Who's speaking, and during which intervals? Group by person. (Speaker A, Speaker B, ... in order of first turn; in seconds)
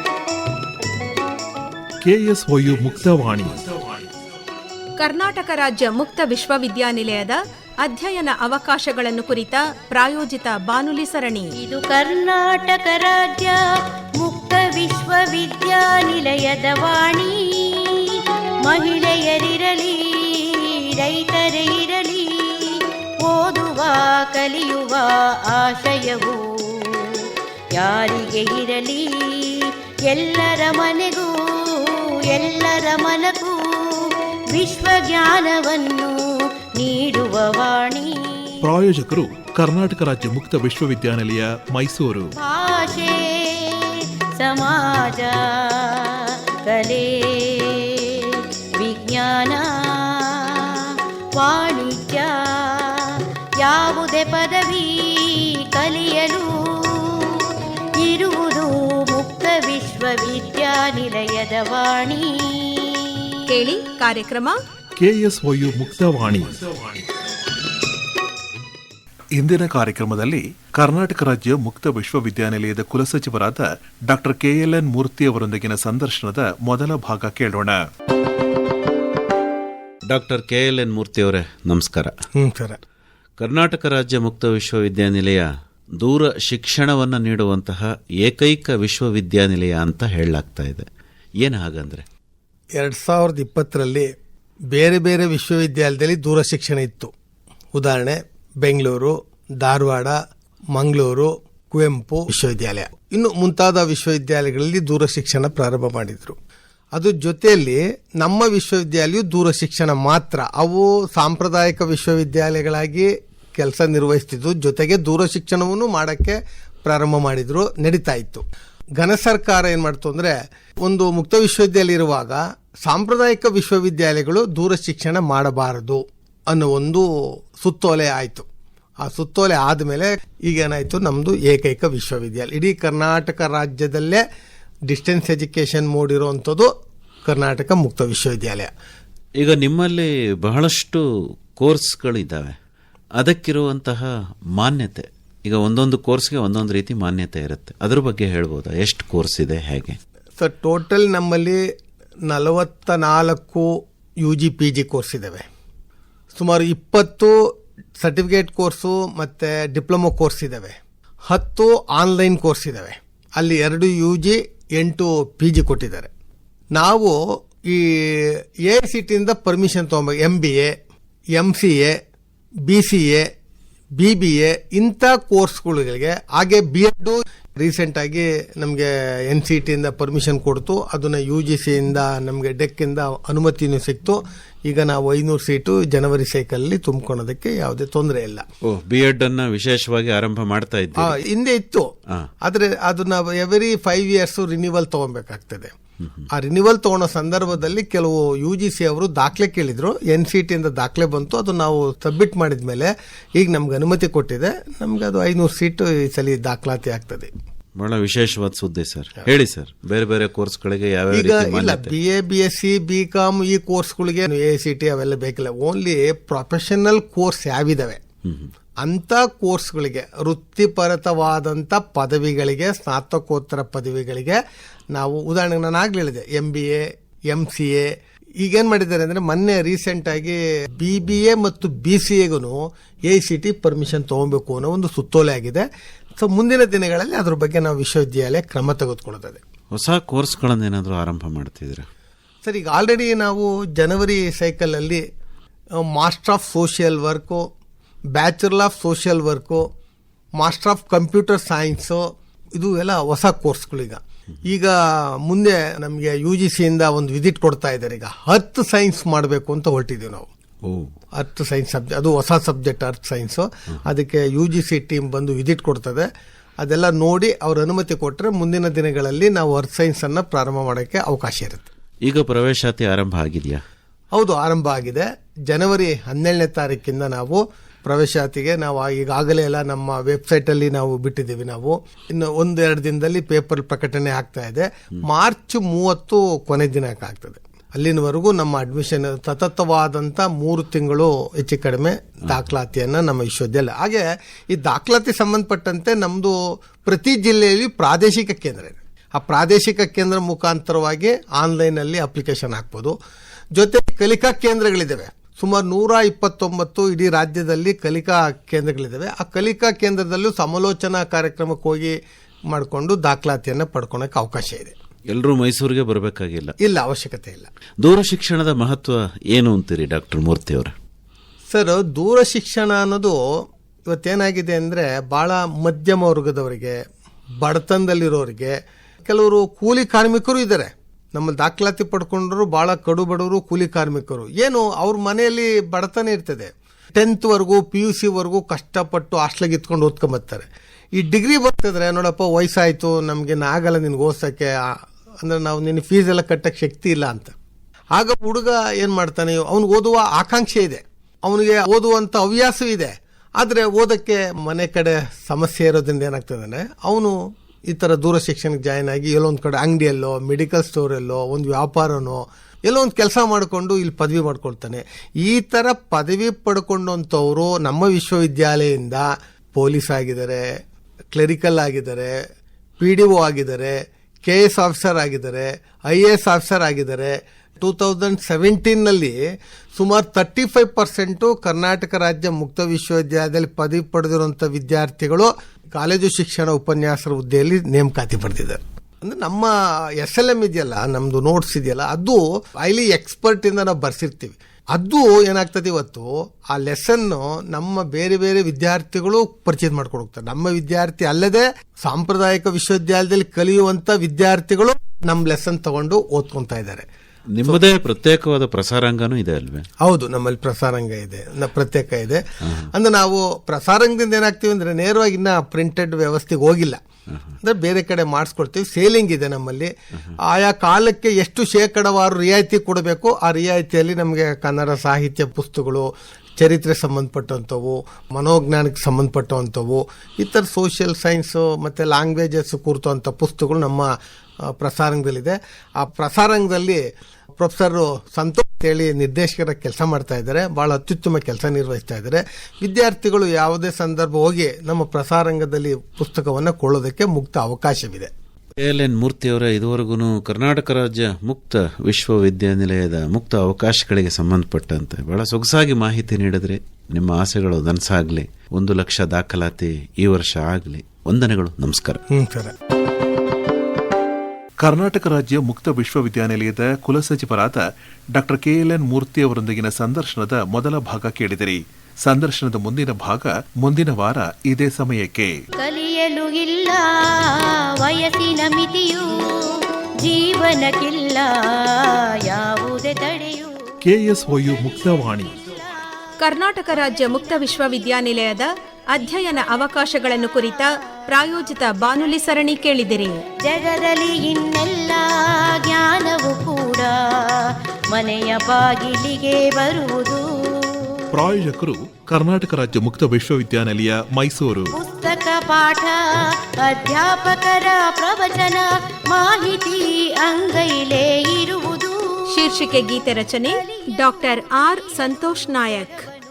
Speaker A: 2.0-4.0, 38.6-42.3, 65.0-67.0, 69.3-77.8, 464.6-475.4, 483.9-485.4, 501.1-504.7
Speaker B: 5.0-11.5, 63.5-64.6, 486.2-493.2, 512.3-516.1
Speaker C: 11.5-13.6, 14.2-36.2, 36.8-38.5, 42.4-63.9, 475.6-483.6, 493.4-501.0, 504.7-505.9, 506.6-511.9
Speaker D: 80.1-82.1, 83.4-90.9, 91.4-92.1, 139.4-142.6, 143.2-150.0, 188.6-191.2, 207.8-211.9, 218.2-218.5, 239.7-241.9, 260.6-260.9, 272.1-273.6, 315.1-316.6, 317.8-320.8, 407.3-409.7, 448.6-462.0
Speaker E: 82.3-82.8, 92.8-94.1, 94.7-97.1, 97.7-100.2, 100.7-106.4, 106.9-118.4, 119.0-120.3, 120.8-128.5, 129.0-134.2, 134.9-136.7, 137.2-138.7, 150.4-151.6, 152.3-153.7, 154.2-155.5, 156.3-157.3, 158.0-166.1, 166.7-167.2, 167.7-170.7, 171.3-171.9, 172.7-173.2, 174.0-188.5, 191.0-191.9, 192.4-195.8, 196.3-207.3, 211.1-218.0, 218.8-224.4, 224.9-227.9, 228.4-235.7, 236.2-239.4, 242.4-245.0, 245.9-247.5, 248.1-249.6, 250.4-252.0, 252.6-260.3, 261.1-266.1, 266.6-271.7, 274.1-302.9, 303.6-311.9, 312.5-314.7, 316.6-317.5, 321.5-323.2, 323.9-326.8, 327.4-328.5, 329.1-347.4, 347.9-357.2, 357.7-370.4, 371.1-372.1, 372.8-379.2, 379.8-406.9, 409.8-416.8, 417.4-419.7, 420.2-433.9, 434.4-436.8, 437.4-448.1, 462.1-462.5